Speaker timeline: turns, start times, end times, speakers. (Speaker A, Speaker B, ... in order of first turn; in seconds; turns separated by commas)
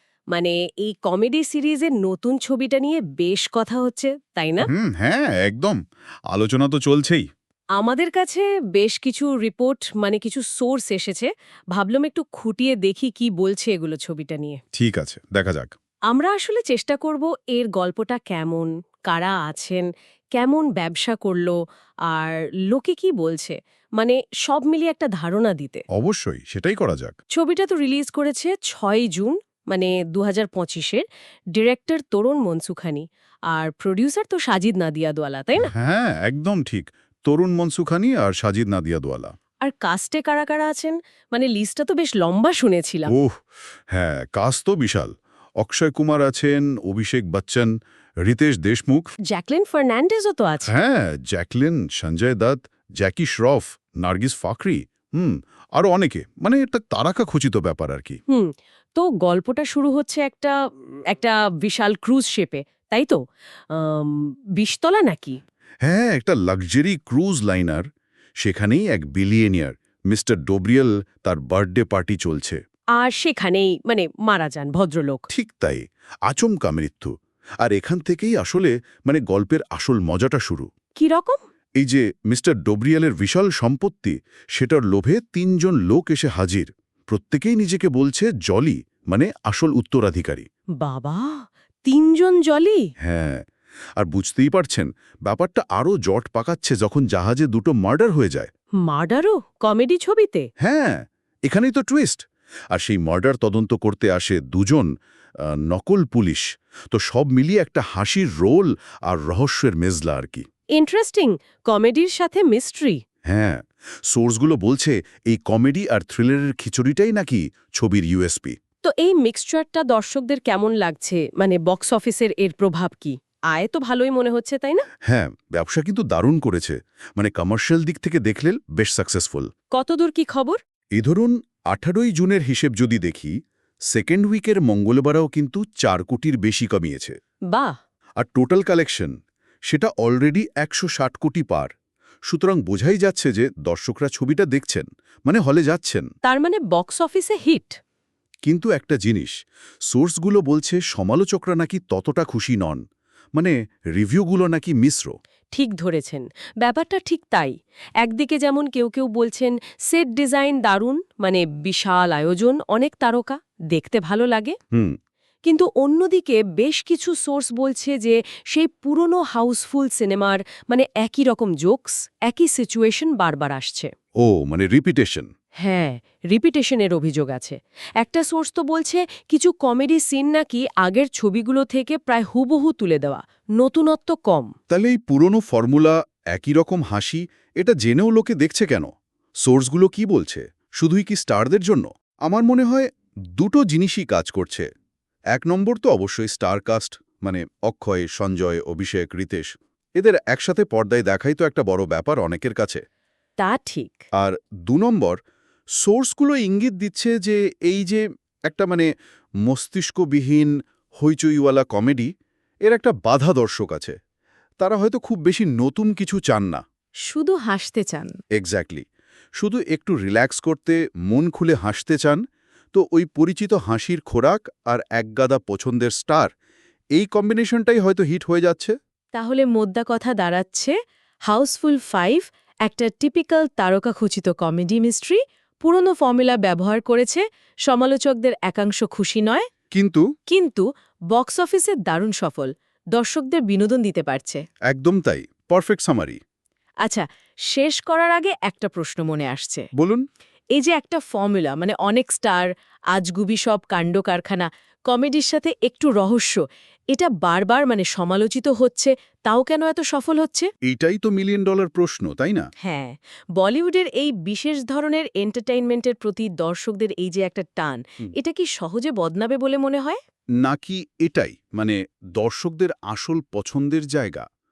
Speaker A: 0.3-4.7, Speaker B: 4.7-5.8, Speaker B: 6.3-7.3, Speaker A: 7.8-14.6, Speaker B: 14.8-15.7, Speaker A: 16.1-21.6, Speaker A: 22.1-25.8, Speaker B: 25.9-27.2, Speaker A: 27.3-35.7, Speaker B: 35.6-39.3, Speaker A: 39.6-43.1, Speaker B: 43.1-47.7, Speaker B: 48.2-49.1, Speaker A: 49.3-50.7, Speaker B: 50.7-58.2, Speaker A: 58.3-60.6, Speaker A: 61.1-63.2, Speaker A: 63.7-65.4, Speaker B: 65.9-67.8, Speaker B: 68.4-72.6, Speaker A: 73.0-75.2, Speaker B: 75.3-77.1, Speaker B: 77.6-80.7, Speaker A: 81.0-81.4, Speaker B: 81.8-90.5, Speaker A: 90.8-92.9, Speaker B: 93.0-93.5, Speaker B: 94.0-98.5, Speaker A: 98.8-100.5, Speaker B: 100.6-104.9, Speaker B: 105.4-110.4, Speaker A: 110.8-113.0, Speaker B: 113.3-118.6, Speaker A: 118.8-124.8, Speaker B: 125.1-129.5, Speaker A: 129.7-130.6, Speaker B: 131.0-133.3, Speaker B: 133.9-137.2, Speaker B: 138.2-139.1, Speaker B: 139.7-141.7, Speaker B: 142.3-146.1, Speaker A: 146.2-147.8, Speaker B: 148.4-149.3, Speaker B: 149.9-152.8, Speaker B: 153.4-155.1, Speaker A: 155.5-164.6, Speaker A: 165.4-173.9, Speaker B: 174.2-175.3, Speaker A: 175.6-184.5, Speaker B: 184.7-188.9, Speaker B: 189.4-194.7, Speaker B: 195.3-202.8, Speaker A: 203.4-204.0, Speaker B: 204.2-205.2, Speaker B: 205.8-208.9, Speaker B: 209.4-212.1, Speaker B: 212.7-213.9, Speaker B: 214.6-216.6, Speaker A: 217.1-218.2, Speaker B: 218.3-218.8, Speaker B: 219.4-226.3, Speaker B: 226.9-228.7, Speaker A: 229.2-230.7, Speaker A: 231.3-239.5, Speaker B: 239.7-240.1, Speaker A: 240.3-244.4, Speaker B: 244.7-246.2, Speaker A: 246.8-249.7, Speaker B: 249.8-250.0, Speaker A: 250.6-256.4, Speaker A: 256.9-260.5, Speaker B: 260.7-262.5, Speaker A: 262.6-270.0, Speaker B: 270.4-274.2